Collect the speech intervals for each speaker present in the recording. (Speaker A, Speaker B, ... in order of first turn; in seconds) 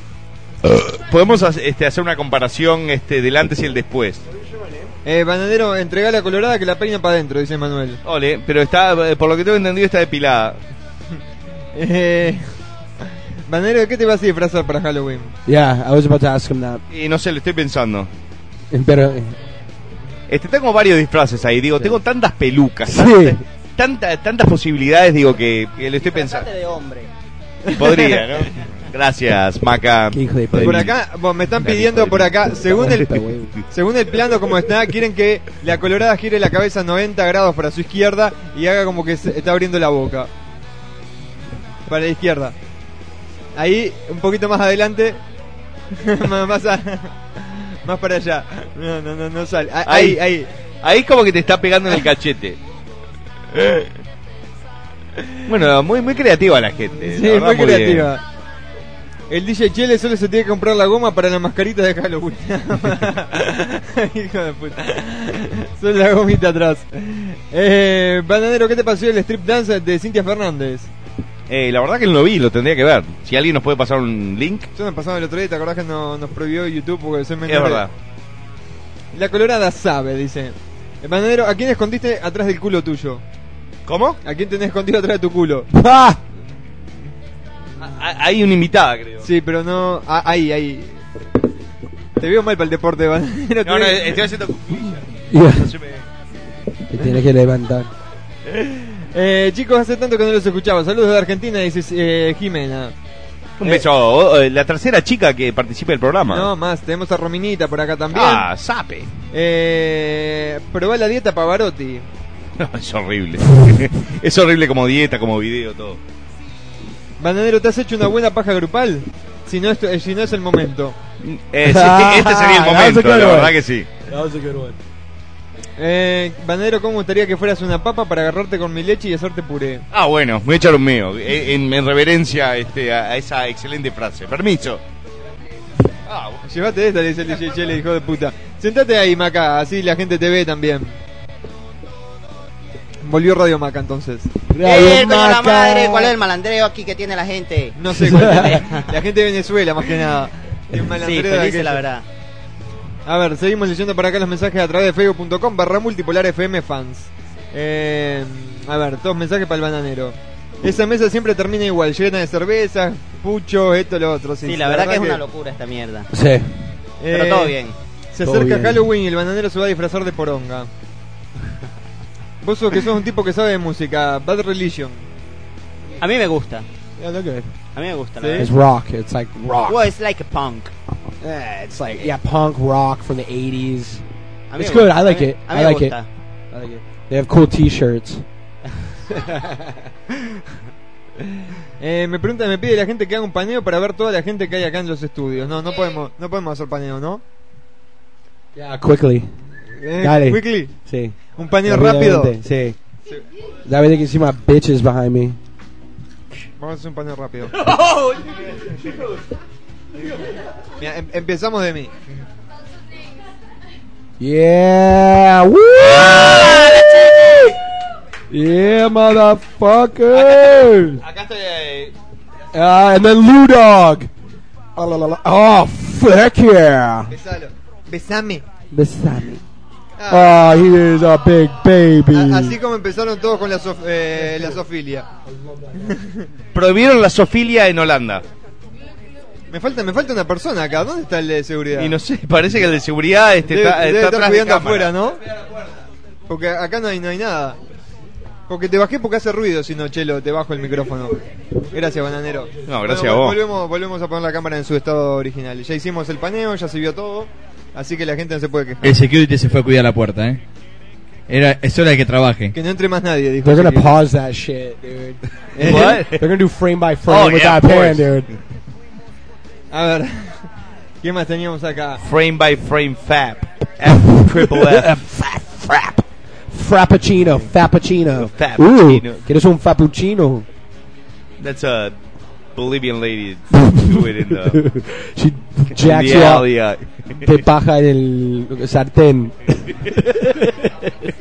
Speaker A: 0.6-4.2, 8.0-10.6, 16.9-18.1, 20.3-26.5, 27.7-31.0, 31.6-33.0, 49.9-50.2, 50.8-52.6, 53.5-53.9, 55.5-58.1, 71.5-74.7, 77.5-77.9, 83.9-84.2, 87.8-89.3, 93.6-96.1, 103.6-106.5, 108.1-109.1, 112.6-116.0, 121.2-123.9, 129.9-134.8, 136.1-136.4, 215.9-217.2, 220.1-221.9, 236.5-238.2, 241.8-244.9, 252.7-253.4, 265.6-266.2, 267.1-268.1, 272.0-275.0, 278.2-279.3, 281.4-282.0, 282.6-284.6, 285.8-287.4
Speaker B: 5.0-8.0, 11.8-12.5, 13.5-15.3, 27.7-28.3, 30.6-33.1, 33.7-40.3, 41.9-42.5, 43.6-45.2, 45.9-50.5, 57.0-58.2, 59.3-70.9, 74.8-77.8, 79.1-83.2, 84.2-85.7, 89.2-91.0, 92.2-94.2, 98.5-102.9, 106.3-108.5, 109.3-112.1, 117.2-121.0, 125.8-129.8, 136.4-140.9, 143.1-144.3, 147.8-151.8, 153.1-165.2, 167.0-167.6, 168.1-170.7, 172.4-175.0, 178.2-178.5, 191.8-197.2, 199.8-200.8, 201.3-202.4, 206.6-207.6, 210.8-211.9, 227.1-228.4, 230.0-230.4, 232.1-235.1, 235.7-236.3, 239.5-241.9, 243.5-245.2, 246.3-247.6, 248.5-251.2, 251.7-258.9, 262.5-264.0, 265.6-266.1, 269.7-270.5, 271.0-272.0
Speaker C: 15.5-16.8, 18.7-19.3, 22.9-23.4, 30.1-30.9, 32.6-33.6, 85.7-86.2, 95.3-95.7, 96.9-97.9, 121.6-123.6, 124.1-124.8, 144.5-146.1, 148.0-148.6, 166.1-166.5, 168.2-168.8, 177.0-177.5, 178.4-179.8, 181.2-184.0, 184.6-186.0, 186.5-188.2, 198.6-199.3, 200.0-202.8, 203.7-205.4, 207.7-208.2, 214.2-217.6, 218.3-221.0, 222.5-224.1, 224.8-227.1, 228.7-229.4, 230.1-232.6, 263.4-268.3, 274.1-280.5, 283.5-286.5, 287.2-289.9
Speaker D: 25.9-27.1, 144.6-148.9, 150.9-152.1, 164.4-166.1, 167.1-167.8, 176.0-176.7, 177.7-178.6, 179.7-180.7, 184.5-186.1
Speaker E: 258.8-260.4, 261.3-262.5